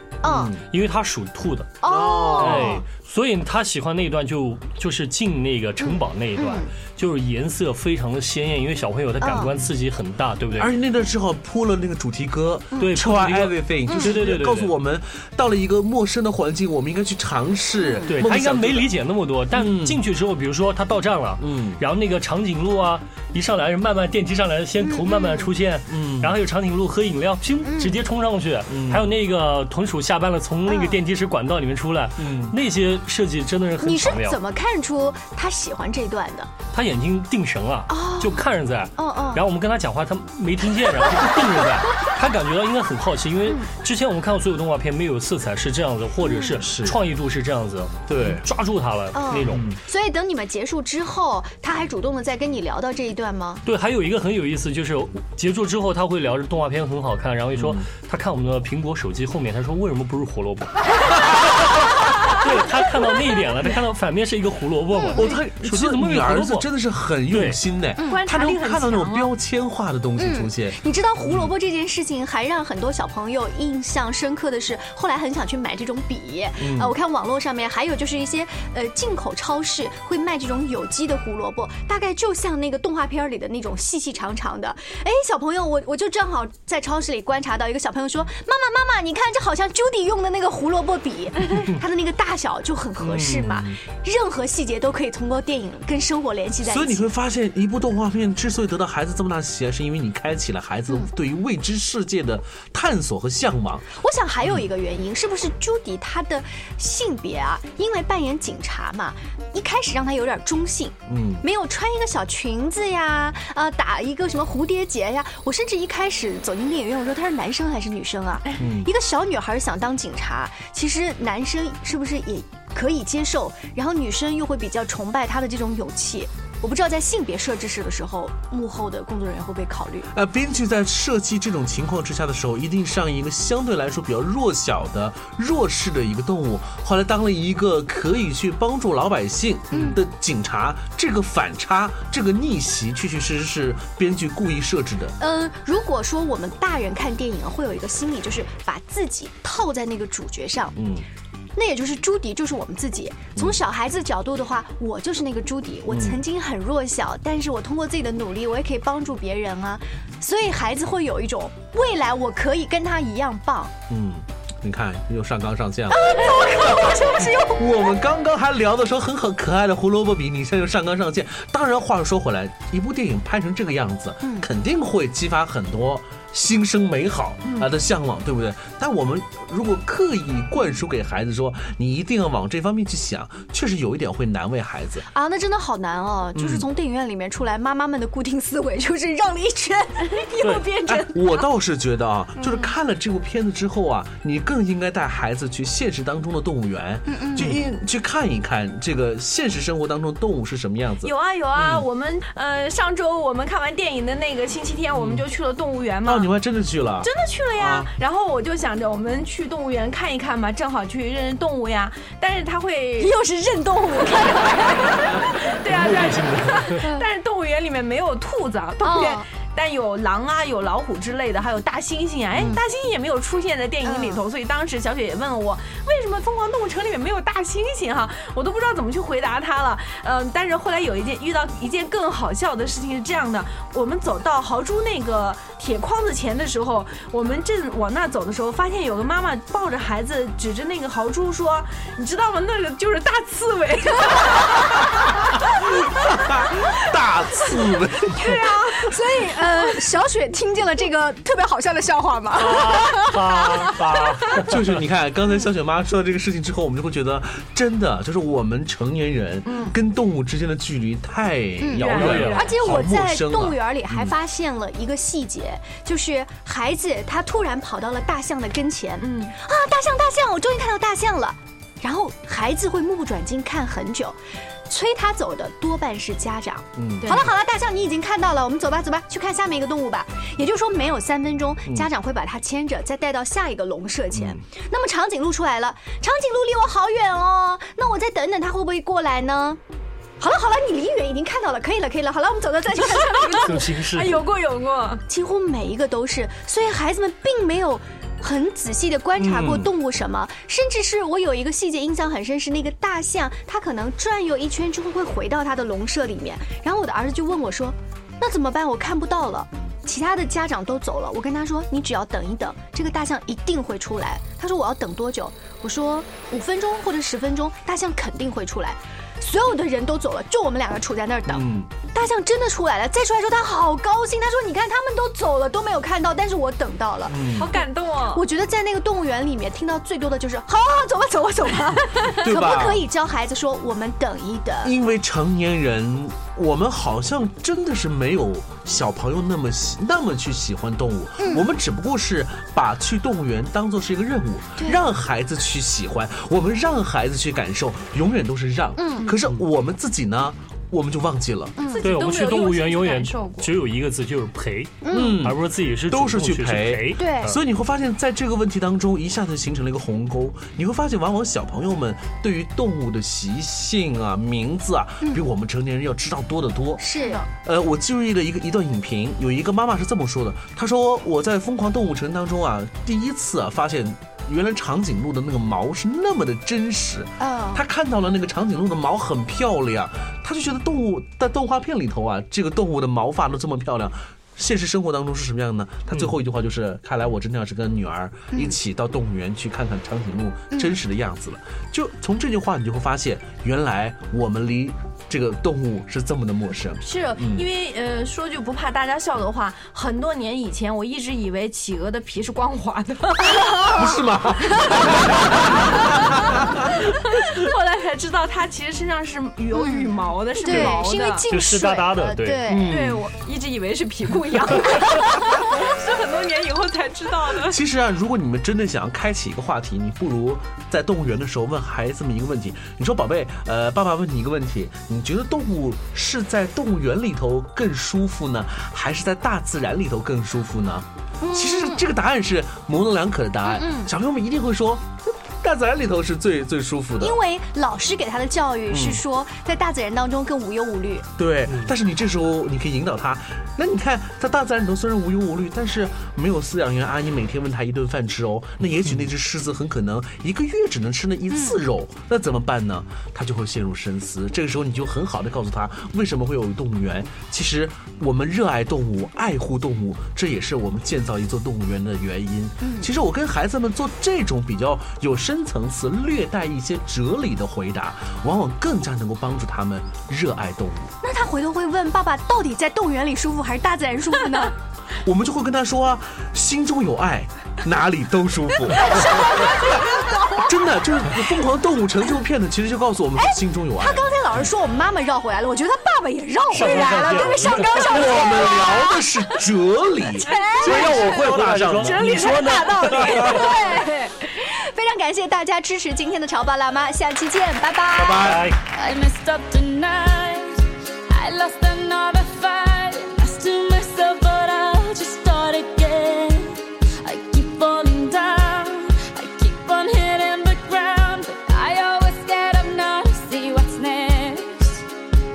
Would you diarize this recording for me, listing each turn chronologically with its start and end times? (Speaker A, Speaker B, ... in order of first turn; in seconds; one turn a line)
Speaker A: 0.2-0.5
Speaker B: 0.2-0.6
Speaker C: 0.7-1.8
Speaker A: 1.8-2.8
Speaker B: 1.8-2.8
Speaker C: 2.4-10.7
Speaker A: 5.8-6.7
Speaker A: 9.2-9.5
Speaker B: 10.6-18.9
Speaker C: 12.8-14.7
Speaker A: 13.9-14.2
Speaker A: 17.8-18.1
Speaker C: 18.1-34.4
Speaker B: 19.5-20.0
Speaker B: 21.4-21.8
Speaker A: 24.8-25.5
Speaker B: 25.9-26.3
Speaker A: 27.6-28.0
Speaker B: 28.7-29.1
Speaker A: 30.7-31.0
Speaker B: 32.2-32.5
Speaker A: 33.8-36.5
Speaker C: 36.7-49.6
Speaker A: 37.9-38.4
Speaker A: 39.0-39.4
Speaker A: 46.2-46.6
Speaker B: 46.6-47.0
Speaker B: 48.1-48.4
Speaker A: 49.1-53.6
Speaker B: 49.5-49.8
Speaker C: 53.6-60.9
Speaker B: 57.5-57.9
Speaker C: 62.3-66.7
Speaker A: 65.0-65.3
Speaker B: 65.1-71.5
Speaker C: 67.3-67.6
Speaker A: 68.0-68.2
Speaker D: 68.0-69.3
Speaker A: 70.2-97.1
Speaker B: 76.6-76.9
Speaker B: 93.0-93.8
Speaker B: 96.6-103.9
Speaker A: 103.9-130.1
Speaker B: 111.1-111.4
Speaker B: 118.6-118.9
Speaker B: 130.1-145.1
Speaker A: 139.7-140.0
Speaker A: 145.2-150.7
Speaker B: 150.8-151.1
Speaker A: 151.6-163.7
Speaker B: 155.9-156.2
Speaker B: 163.9-166.1
Speaker A: 165.9-167.8
Speaker B: 167.6-185.1
Speaker A: 174.2-174.5
Speaker A: 185.1-191.4
Speaker B: 186.3-186.6
Speaker B: 190.9-201.8
Speaker D: 192.4-192.7
Speaker A: 197.1-197.6
Speaker D: 201.0-206.3
Speaker B: 204.9-205.2
Speaker B: 206.0-207.9
Speaker D: 207.0-213.1
Speaker A: 213.0-215.2
Speaker D: 214.8-244.7
Speaker C: 215.7-216.8
Speaker A: 218.8-219.2
Speaker A: 223.8-224.2
Speaker B: 246.3-248.1
Speaker A: 248.2-254.1
Speaker C: 252.3-254.6
Speaker B: 254.4-264.1
Speaker D: 259.5-259.7
Speaker A: 261.6-289.6
Speaker D: 261.8-262.6
Speaker C: 261.8-262.5
Speaker D: 269.0-269.3
Speaker B: 276.8-277.3
Speaker B: 284.1-284.4
Speaker A: 290.2-293.6
Speaker D: 293.1-295.0
Speaker C: 293.4-294.2
Speaker A: 295.1-327.6
Speaker B: 299.2-299.7
Speaker B: 321.3-321.7
Speaker B: 327.1-327.5
Speaker D: 327.4-328.2
Speaker A: 328.1-334.7
Speaker B: 332.2-332.8
Speaker B: 334.6-351.5
Speaker A: 341.2-341.5
Speaker A: 348.8-349.1
Speaker A: 351.6-351.8
Speaker D: 351.6-353.5
Speaker C: 351.8-357.4
Speaker A: 354.8-355.2
Speaker B: 354.9-355.4
Speaker B: 355.9-397.4
Speaker A: 357.0-357.3
Speaker A: 366.8-367.2
Speaker A: 377.2-377.6
Speaker A: 388.3-388.6
Speaker A: 390.5-390.8
Speaker D: 396.8-403.3
Speaker A: 403.3-404.0
Speaker B: 403.8-405.6
Speaker B: 406.2-406.7
Speaker D: 407.1-411.2
Speaker A: 409.5-412.7
Speaker C: 411.3-412.4
Speaker B: 412.4-413.1
Speaker D: 412.7-417.6
Speaker B: 417.4-437.1
Speaker A: 431.2-431.8
Speaker A: 433.4-433.9
Speaker A: 437.0-441.1
Speaker B: 438.7-439.0
Speaker B: 441.2-470.9
Speaker A: 451.3-451.6
Speaker A: 462.6-462.9
Speaker A: 471.0-474.5
Speaker B: 475.0-479.2
Speaker A: 478.7-480.5
Speaker B: 480.4-484.1
Speaker A: 483.1-489.1
Speaker C: 486.5-488.3
Speaker B: 487.4-492.0
Speaker A: 490.2-490.9
Speaker C: 490.6-493.4
Speaker D: 491.8-493.6
Speaker A: 491.9-498.3
Speaker B: 497.9-498.4
Speaker C: 498.2-498.6
Speaker E: 498.6-500.6
Speaker E: 501.1-514.8